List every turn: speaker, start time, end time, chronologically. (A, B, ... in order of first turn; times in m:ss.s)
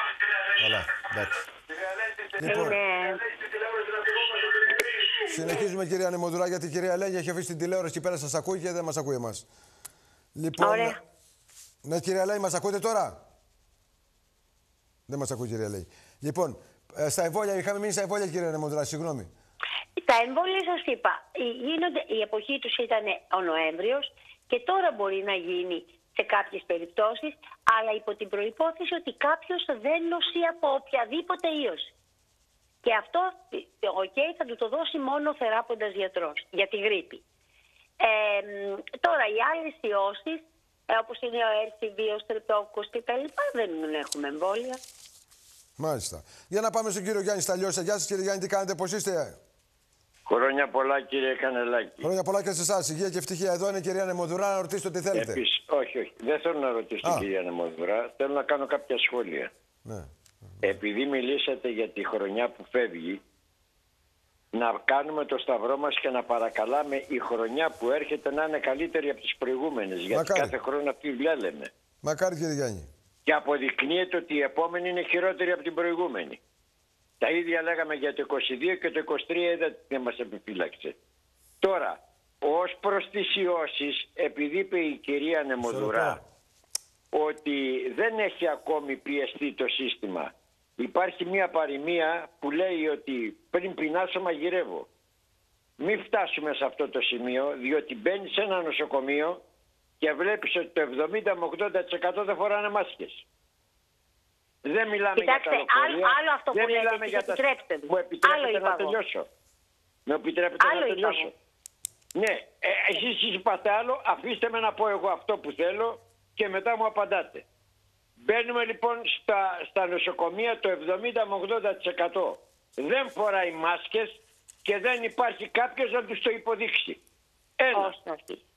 0:00.5-0:01.4 A
0:02.3-0:02.8 A
0:02.4-0:03.2 B
0:05.2-0:09.5 A
0:10.4-0:11.0 A
0:10.6-0:11.0 B
0:11.8-0:13.2 A
0:15.1-0:19.3 A
0:20.0-0:31.9 B
0:32.8-0:37.2 B
0:38.0-0:44.8 B
0:45.8-0:49.4 A
0:50.3-0:52.1 C
0:52.0-0:55.4 A
0:55.1-0:59.5 C
1:00.6-1:03.2 C
1:04.5-1:11.7 C
1:10.1-1:10.6 A
1:12.0-1:12.9 A
1:13.3-1:16.4 C
1:17.2-1:21.0 C
1:21.6-1:26.2 C
1:25.6-1:26.2 A
1:27.1-1:34.9 C
1:35.8-1:39.4 C
1:40.0-1:43.2 C
1:44.6-1:49.3 C
1:45.2-1:49.0 B
1:50.1-1:51.3 C
1:50.6-1:51.3 B
1:52.2-1:57.4 C
1:58.2-2:07.0 C
2:07.6-2:07.9 C
2:07.7-2:08.4 B